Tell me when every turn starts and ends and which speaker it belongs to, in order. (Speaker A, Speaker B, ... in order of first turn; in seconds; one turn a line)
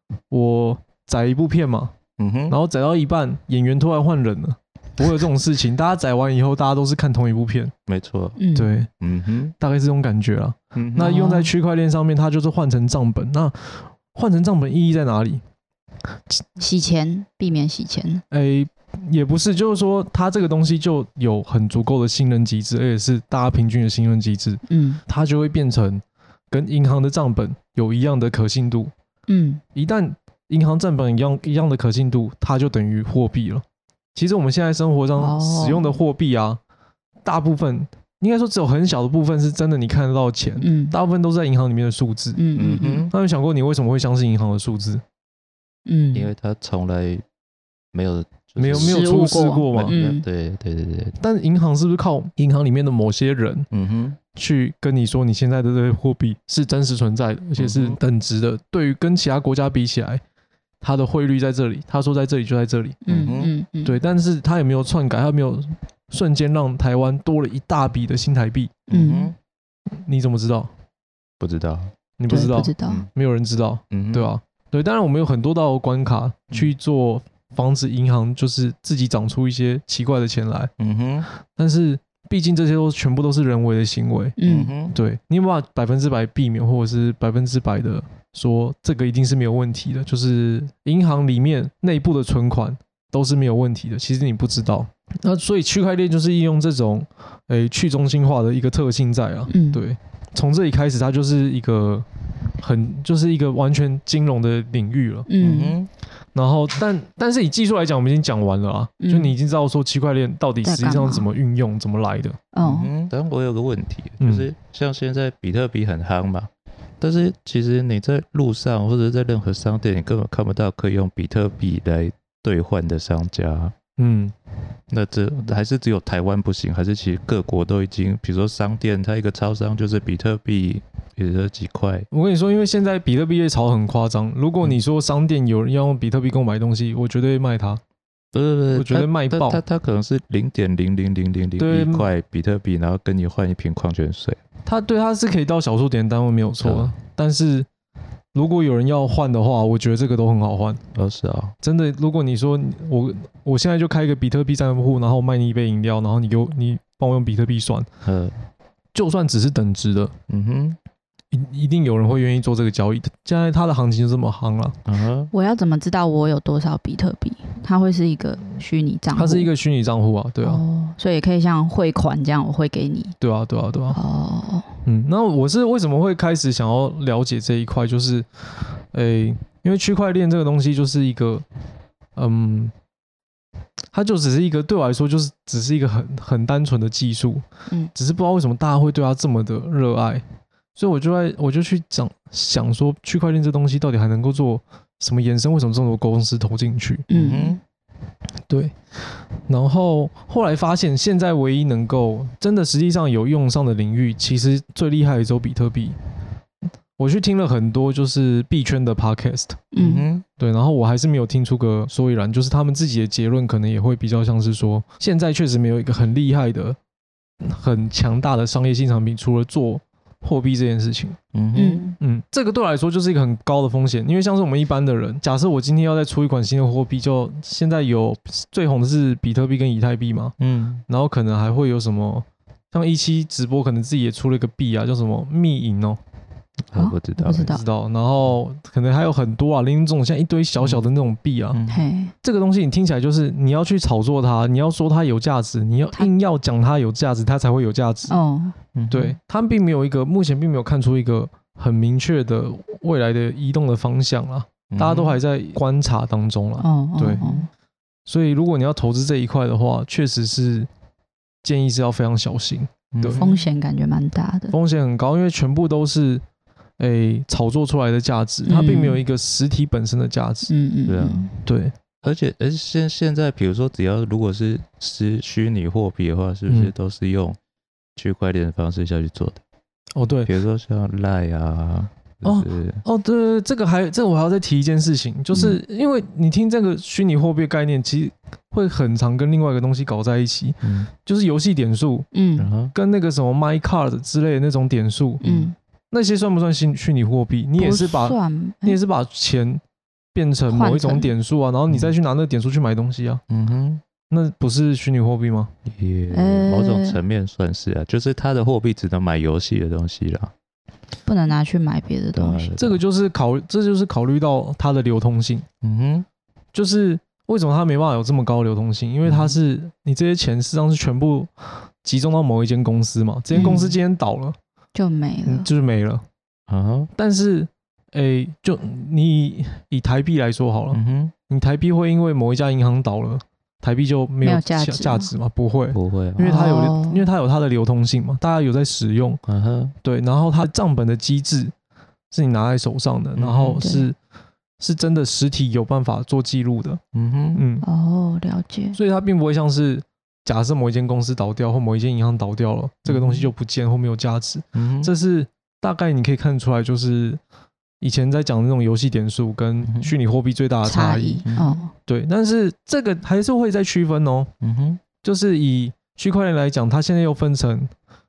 Speaker A: 0.3-1.9
Speaker B: 2.2-2.5
Speaker A: 2.5-7.7
Speaker B: 7.9-8.4
Speaker C: 8.4-8.7
Speaker A: 8.5-8.9
Speaker B: 9.0-9.5
Speaker A: 9.6-15.4
Speaker B: 10.7-11.1
Speaker C: 11.0-11.5
Speaker C: 16.6-18.2
Speaker A: 18.3-28.9
Speaker C: 24.7-25.0
Speaker C: 29.3-29.6
Speaker A: 29.7-33.6
Speaker A: 34.1-36.6
Speaker C: 35.2-36.0
Speaker A: 37.2-42.4
Speaker C: 40.6-40.9
Speaker C: 42.4-43.1
Speaker B: 42.5-43.1
Speaker A: 43.1-45.0
Speaker C: 45.9-46.3
Speaker B: 46.1-47.2
Speaker B: 47.9-49.0
Speaker A: 48.6-50.0
Speaker C: 48.7-50.2
Speaker B: 49.7-51.2
Speaker A: 51.2-53.7
Speaker B: 53.7-54.2
Speaker A: 54.3-60.2
Speaker B: 57.6-58.0
Speaker A: 60.8-63.0
Speaker C: 63.0-64.0
Speaker B: 63.1-63.5
Speaker A: 63.8-68.7
Speaker B: 68.9-69.3
Speaker C: 68.9-69.3
Speaker A: 70.0-70.7
Speaker B: 71.4-71.9
Speaker A: 72.2-80.7
Speaker C: 72.3-73.0
Speaker B: 72.8-73.1
Speaker B: 73.9-74.3
Speaker B: 80.8-81.3
Speaker A: 81.5-84.4
Speaker C: 84.4-84.7
Speaker B: 84.4-84.9
Speaker A: 84.9-102.0
Speaker C: 99.5-99.8
Speaker A: 102.6-105.3
Speaker C: 105.3-105.8
Speaker B: 105.4-105.9
Speaker A: 106.3-112.4
Speaker C: 109.0-109.3
Speaker C: 110.6-111.2
Speaker C: 112.5-112.9
Speaker B: 112.6-123.7
Speaker A: 114.2-114.5
Speaker A: 124.0-124.3
Speaker B: 124.9-132.1
Speaker A: 132.1-137.8
Speaker B: 138.3-144.4
Speaker A: 138.7-139.6
Speaker A: 141.6-142.1
Speaker A: 144.7-147.7
Speaker B: 146.6-146.9
Speaker A: 148.3-150.8
Speaker B: 150.9-151.5
Speaker A: 151.6-157.9
Speaker B: 158.0-158.3
Speaker A: 158.9-160.1
Speaker B: 160.3-160.8
Speaker A: 161.3-164.8
Speaker B: 164.8-165.3
Speaker C: 165.3-169.5
Speaker A: 169.1-170.6
Speaker C: 170.4-173.2
Speaker A: 173.2-174.0
Speaker C: 173.9-174.8
Speaker A: 174.8-178.2
Speaker A: 178.9-181.4
Speaker A: 182.2-182.7
Speaker A: 183.9-187.4
Speaker A: 187.9-190.2
Speaker A: 190.8-197.1
Speaker C: 197.1-197.6
Speaker B: 197.1-197.6
Speaker A: 198.5-198.8
Speaker A: 199.5-205.9
Speaker A: 207.0-209.7
Speaker C: 209.7-210.1
Speaker B: 209.8-210.2
Speaker A: 210.4-216.8
Speaker A: 217.4-221.2
Speaker B: 221.3-221.9
Speaker C: 221.5-221.9
Speaker A: 222.0-230.3
Speaker B: 230.4-230.8
Speaker A: 230.9-236.0
Speaker B: 236.7-237.6
Speaker C: 236.7-237.6
Speaker A: 237.5-241.6
Speaker B: 240.6-240.8
Speaker B: 241.5-241.9
Speaker C: 241.7-242.1
Speaker A: 242.2-248.2
Speaker C: 248.1-248.5
Speaker B: 248.7-249.2
Speaker A: 248.9-257.4
Speaker B: 254.7-255.2
Speaker C: 256.6-257.5
Speaker A: 258.1-260.7
Speaker A: 261.4-263.2
Speaker B: 262.9-263.4
Speaker C: 263.2-264.5
Speaker A: 264.5-266.2
Speaker A: 266.8-270.5
Speaker C: 268.4-269.0
Speaker C: 270.5-271.4
Speaker B: 270.9-271.3
Speaker A: 271.4-271.7
Speaker B: 272.0-277.4
Speaker A: 276.5-276.7
Speaker B: 277.9-279.4
Speaker A: 279.9-280.3
Speaker B: 280.2-282.8
Speaker A: 282.2-292.1
Speaker B: 285.3-285.6
Speaker B: 290.6-290.9
Speaker C: 292.1-292.5
Speaker B: 292.4-292.7
Speaker A: 292.7-295.2
Speaker B: 295.2-295.5
Speaker C: 295.2-295.5
Speaker A: 295.9-299.6
Speaker C: 297.6-298.8
Speaker A: 300.1-303.2
Speaker C: 300.5-301.1
Speaker B: 301.7-301.9
Speaker B: 303.3-303.8
Speaker A: 304.1-305.5
Speaker B: 305.6-310.3
Speaker C: 306.1-307.0
Speaker C: 311.1-312.5
Speaker B: 312.1-312.8
Speaker A: 312.6-315.4
Speaker B: 315.6-316.1
Speaker A: 316.5-324.4
Speaker B: 319.0-319.4
Speaker C: 323.3-323.8
Speaker C: 324.7-325.5
Speaker A: 325.2-326.0
Speaker B: 326.5-326.9
Speaker A: 326.9-339.2
Speaker B: 330.7-331.1
Speaker C: 334.2-335.1
Speaker B: 335.7-336.2
Speaker C: 336.2-337.1
Speaker B: 339.3-339.7
Speaker A: 339.8-341.5
Speaker A: 342.1-343.9
Speaker B: 343.1-343.6
Speaker C: 343.6-343.9
Speaker A: 344.6-346.8
Speaker B: 346.9-347.4
Speaker A: 347.3-347.6
Speaker C: 347.6-348.8
Speaker A: 348.7-357.2
Speaker B: 352.9-353.3
Speaker B: 354.5-354.9
Speaker A: 357.8-361.2
Speaker B: 359.6-359.9
Speaker C: 360.6-361.7
Speaker B: 361.2-361.6
Speaker A: 361.9-364.3
Speaker B: 364.4-364.8
Speaker A: 365.0-367.7